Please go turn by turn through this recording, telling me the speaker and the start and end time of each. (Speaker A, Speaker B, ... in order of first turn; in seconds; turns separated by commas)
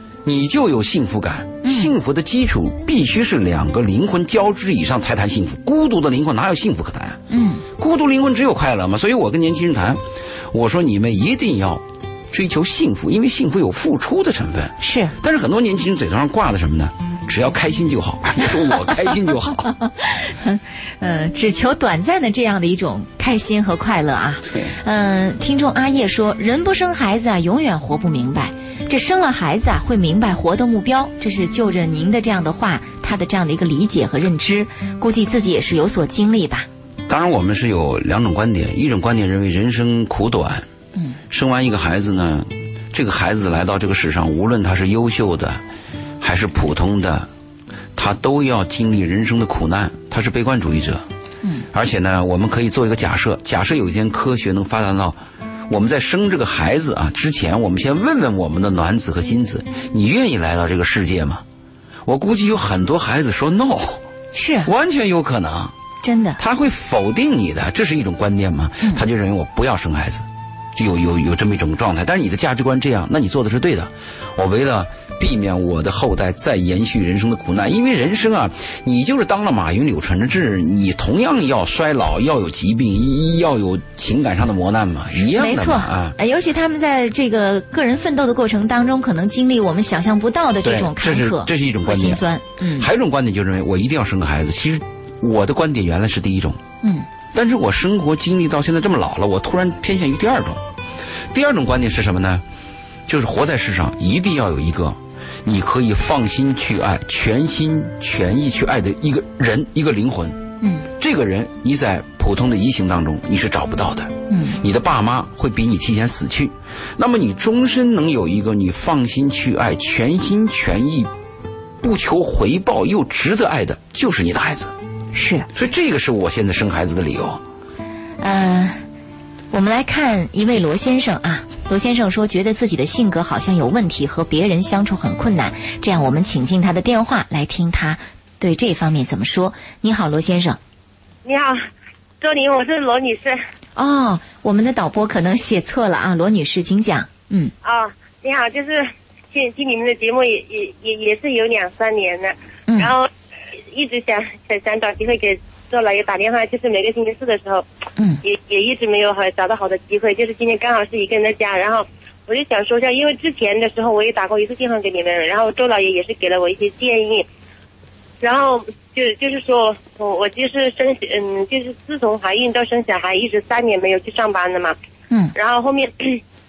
Speaker A: 0.2-7.2, Speaker B: 1.6-1.9, Speaker B: 7.3-7.6, Speaker A: 7.8-19.7, Speaker B: 14.8-15.1, Speaker B: 19.6-36.7, Speaker A: 37.1-40.7, Speaker A: 41.3-45.6, Speaker A: 46.2-47.3, Speaker A: 48.0-51.1, Speaker A: 51.7-55.2, Speaker A: 55.7-61.4, Speaker A: 62.0-64.0, Speaker B: 64.3-64.7, Speaker A: 64.7-65.7, Speaker B: 66.0-66.4, Speaker A: 66.4-86.2, Speaker B: 85.2-92.9, Speaker A: 90.6-92.2, Speaker A: 92.8-96.6, Speaker B: 96.8-97.1, Speaker A: 97.3-100.6, Speaker A: 101.3-102.4, Speaker A: 103.1-121.1, Speaker B: 110.6-110.9, Speaker B: 114.3-114.6, Speaker A: 121.8-124.7, Speaker B: 125.1-125.5, Speaker A: 125.5-127.4, Speaker B: 128.2-128.8, Speaker B: 129.5-140.6, Speaker C: 141.2-141.6, Speaker C: 142.2-143.4, Speaker B: 143.8-147.5, Speaker C: 147.6-153.1, Speaker B: 152.7-152.9, Speaker C: 153.7-157.7, Speaker C: 158.2-167.3, Speaker C: 168.2-174.8, Speaker C: 175.3-176.2